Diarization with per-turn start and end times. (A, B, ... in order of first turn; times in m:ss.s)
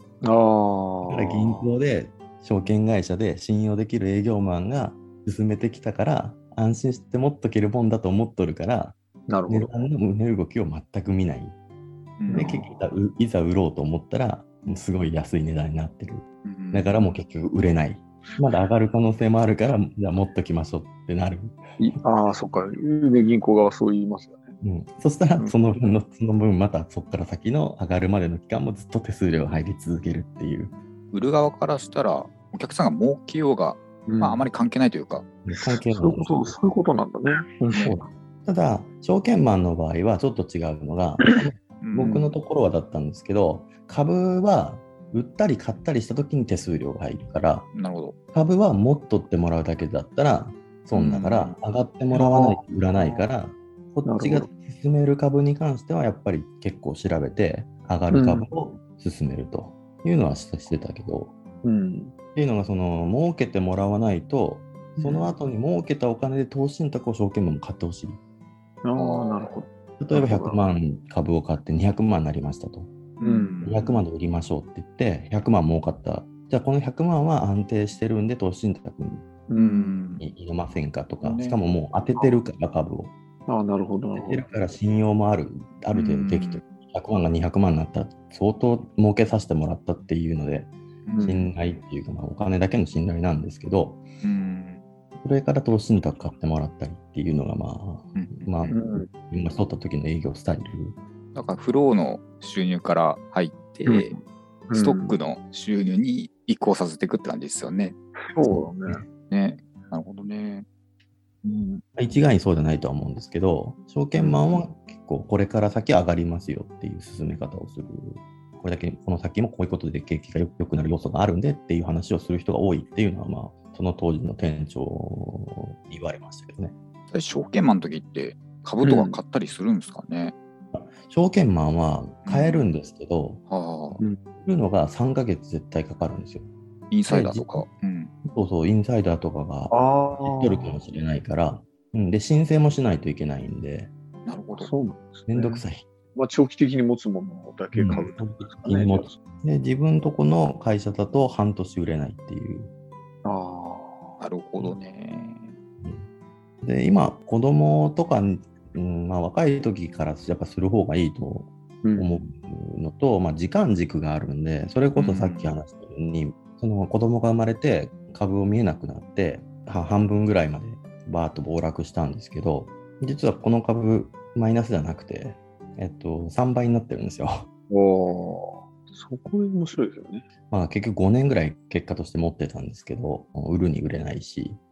0:00.2-0:01.7 A
0:01.0-0:09.0 B
0:09.3-0:09.7 A
0:09.5-0:11.5 B
0:12.2-0:12.6 C
0:12.3-0:12.8 A
0:12.3-0:21.6 B
0:16.5-0:16.9 C
0:21.8-0:24.5 A
0:24.6-0:30.8 B
0:31.1-0:35.2 C
0:34.1-0:34.5 A
0:35.5-0:36.5 B
0:35.6-0:38.0 A
0:37.7-0:47.7 B
0:41.2-0:41.4 A
0:41.8-0:42.2 C
0:42.0-0:42.4 A
0:47.7-0:48.2 C
0:48.3-1:01.3 B
0:50.9-0:51.6 C
0:52.1-0:53.2 A
0:54.0-0:54.5 A
0:58.1-0:58.5 A
1:01.6-1:02.1 A
1:02.4-1:08.2 B
1:05.0-1:05.4 A
1:08.8-1:10.6 A
1:09.0-1:09.5 C
1:10.0-1:12.9 B
1:13.2-1:13.8 C
1:13.2-1:14.0 A
1:13.6-1:19.3 B
1:19.5-1:20.0 A
1:19.5-1:20.2 C
1:20.2-1:23.1 B
1:21.2-1:21.6 C
1:22.2-1:22.4 A
1:23.5-1:24.4 A
1:24.2-1:34.0 B
1:25.9-1:26.6 C
1:31.1-1:31.5 A
1:34.2-1:34.8 C
1:35.2-1:41.0 B
1:38.2-1:38.8 C
1:38.7-1:39.1 A
1:41.4-1:44.1 C
1:43.9-1:45.2 A
1:44.7-1:48.0 C
1:48.3-1:49.0 A
1:48.5-1:49.0 B
1:49.3-1:50.6 C
1:51.4-1:51.8 C
1:52.0-2:06.7 B
1:54.2-1:54.6 A
2:07.1-2:10.3 C
2:08.8-2:09.2 A
2:10.7-2:13.4 B
2:12.2-2:12.7 C
2:13.5-2:14.0 C
2:14.4-2:16.5 B
2:16.9-2:18.1 C
2:17.1-2:17.7 B
2:18.2-2:23.9 B
2:19.7-2:20.8 A
2:24.3-2:24.7 C
2:24.6-2:29.1 A
2:25.3-2:25.9 B
2:27.7-2:32.7 B
2:33.2-2:34.2 A
2:34.2-2:35.5 C
2:35.8-2:36.1 B
2:36.6-2:57.5 B
2:41.8-2:42.2 A
2:45.0-2:45.6 C
2:57.7-3:00.3 A
3:00.5-3:04.6 B